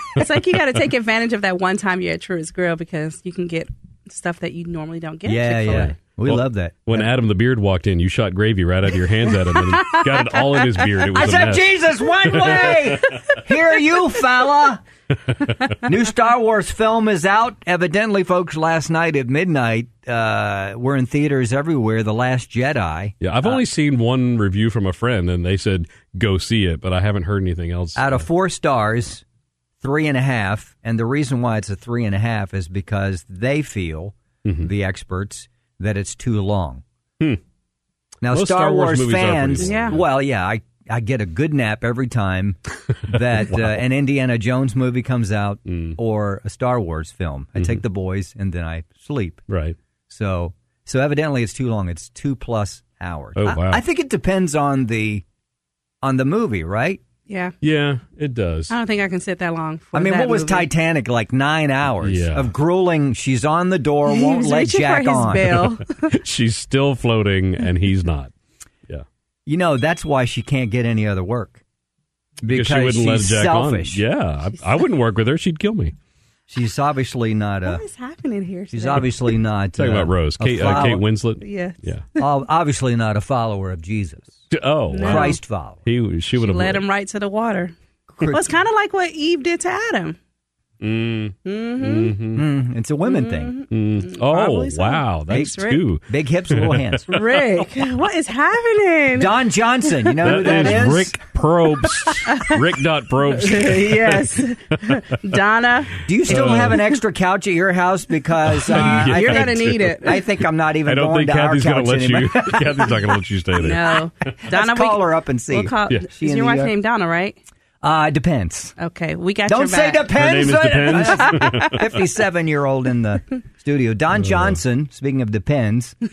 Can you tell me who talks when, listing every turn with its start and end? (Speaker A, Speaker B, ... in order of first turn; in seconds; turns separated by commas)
Speaker A: 0.1-6.0, Speaker B: 5.3-7.1, Speaker C: 5.7-11.8, Speaker A: 9.6-11.1, Speaker B: 11.1-14.8, Speaker C: 12.4-13.0, Speaker B: 15.8-23.6, Speaker C: 23.2-28.2, Speaker B: 28.0-29.2, Speaker B: 29.8-36.8, Speaker B: 38.2-42.6, Speaker C: 38.3-40.0, Speaker A: 39.6-40.0, Speaker B: 43.1-49.4, Speaker C: 43.1-43.8, Speaker C: 45.7-46.0, Speaker C: 47.6-47.8, Speaker C: 49.5-49.8, Speaker B: 50.1-55.2, Speaker C: 53.4-53.8, Speaker B: 56.0-57.0, Speaker A: 57.3-57.5, Speaker C: 57.6-58.8, Speaker A: 58.7-60.7, Speaker B: 59.9-65.7, Speaker C: 62.0-62.5, Speaker A: 64.1-66.1, Speaker C: 66.1-68.3, Speaker B: 69.5-71.6, Speaker B: 72.4-74.0, Speaker C: 72.5-76.0, Speaker B: 76.5-77.8, Speaker A: 77.6-79.3, Speaker B: 78.7-81.1, Speaker C: 79.8-82.0, Speaker A: 81.4-82.3, Speaker B: 82.2-84.4, Speaker C: 84.5-86.8, Speaker A: 84.9-85.4, Speaker B: 85.0-85.8, Speaker A: 86.4-90.2, Speaker B: 88.1-88.4, Speaker C: 90.8-92.5, Speaker A: 91.5-92.2, Speaker B: 92.3-93.5, Speaker A: 93.1-95.8, Speaker C: 93.7-97.7, Speaker B: 95.3-97.1, Speaker A: 97.1-99.5, Speaker B: 99.1-101.2, Speaker C: 100.2-105.0, Speaker A: 100.4-100.8, Speaker A: 102.3-102.6, Speaker A: 103.3-106.9, Speaker B: 106.1-113.1, Speaker C: 106.3-106.8, Speaker C: 108.5-110.2, Speaker A: 108.7-110.2, Speaker C: 110.8-114.0, Speaker A: 113.6-117.4, Speaker B: 114.5-116.8, Speaker B: 117.8-118.8, Speaker A: 118.8-121.8, Speaker B: 119.5-126.0, Speaker C: 120.1-121.8, Speaker C: 124.2-124.6